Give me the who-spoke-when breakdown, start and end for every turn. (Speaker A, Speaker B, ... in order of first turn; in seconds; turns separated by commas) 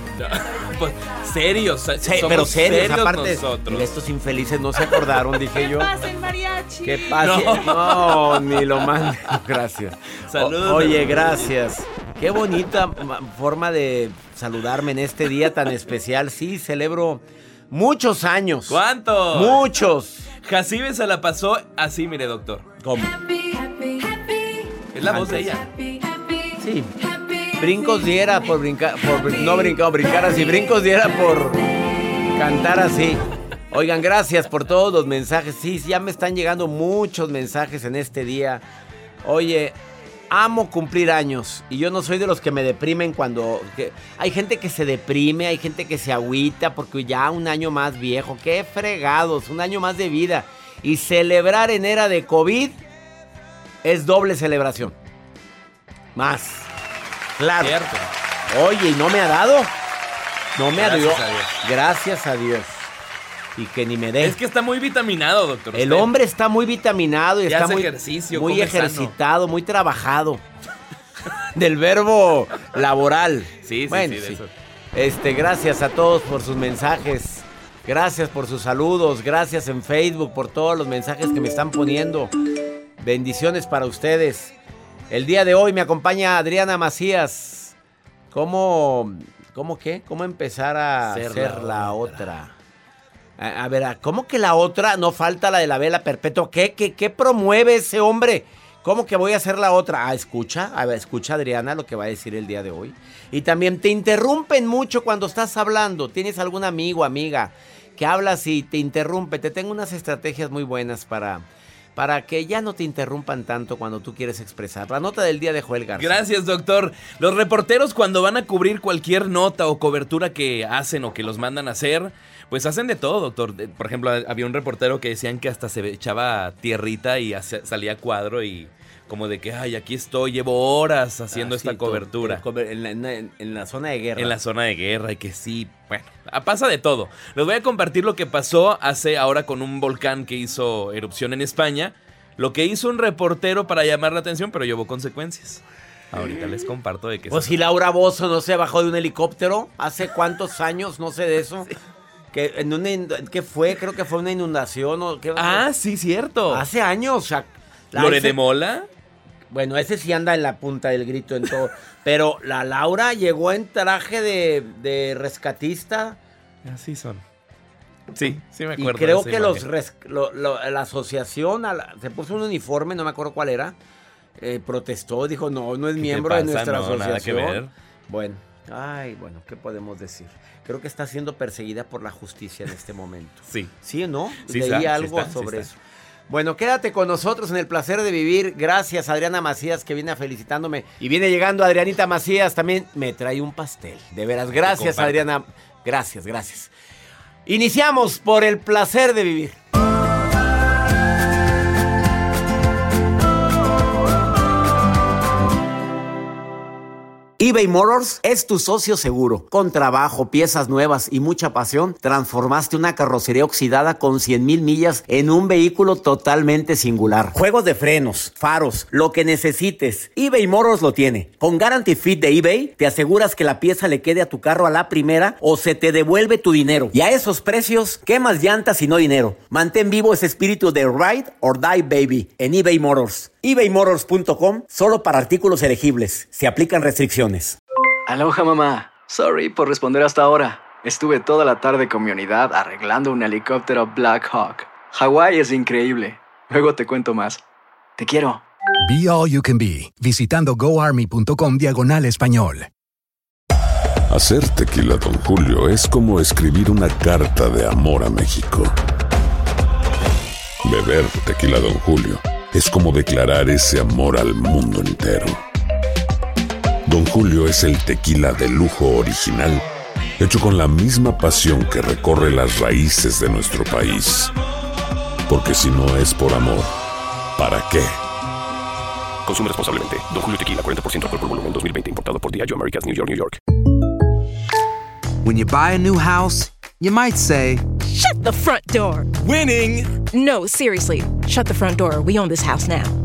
Speaker A: 0.2-3.9, Speaker B: 2.0-5.9, Speaker B: 6.8-18.8, Speaker A: 7.2-8.6, Speaker A: 10.3-11.5, Speaker A: 18.7-19.6, Speaker B: 19.3-20.3, Speaker A: 20.4-22.7, Speaker B: 22.8-23.2, Speaker C: 23.4-24.6, Speaker A: 24.9-25.7, Speaker B: 25.0-25.5, Speaker B: 26.6-26.9, Speaker B: 27.6-31.6, Speaker B: 32.3-38.6, Speaker B: 39.2-39.8, Speaker B: 40.3-52.8, Speaker B: 53.8-54.9, Speaker B: 56.2-56.7, Speaker B: 57.4-57.8, Speaker A: 57.6-58.1, Speaker B: 58.5-59.7, Speaker B: 60.6-62.9, Speaker A: 60.8-61.5, Speaker B: 63.6-64.4, Speaker A: 64.2-66.1, Speaker B: 65.7-70.4, Speaker A: 67.5-69.1, Speaker B: 71.5-74.4, Speaker A: 73.6-74.5, Speaker B: 74.9-82.3, Speaker B: 83.0-84.5, Speaker B: 85.1-87.7, Speaker B: 88.3-92.5, Speaker A: 91.0-92.3, Speaker B: 93.4-111.5, Speaker B: 112.0-116.2, Speaker A: 116.0-132.4, Speaker B: 131.3-134.3, Speaker A: 134.2-145.6, Speaker A: 146.1-147.6, Speaker B: 147.3-151.7, Speaker B: 152.3-155.7, Speaker A: 155.3-156.7, Speaker B: 156.5-158.4, Speaker A: 157.9-158.9, Speaker B: 159.5-166.2, Speaker A: 166.7-167.2, Speaker A: 168.1-169.6, Speaker B: 168.8-173.7, Speaker B: 174.4-196.7, Speaker A: 176.0-177.7, Speaker A: 184.5-185.7, Speaker A: 194.5-195.2, Speaker B: 197.5-199.6, Speaker B: 207.4-237.6, Speaker D: 238.1-247.4, Speaker D: 248.0-248.4, Speaker E: 248.8-252.7, Speaker F: 254.1-258.8, Speaker F: 260.6-265.4, Speaker F: 266.9-269.6, Speaker F: 270.2-274.3, Speaker F: 275.3-276.7, Speaker F: 277.4-278.0, Speaker G: 279.2-283.4, Speaker H: 285.2-287.6, Speaker C: 287.8-289.1, Speaker H: 289.3-289.9, Speaker C: 290.0-292.9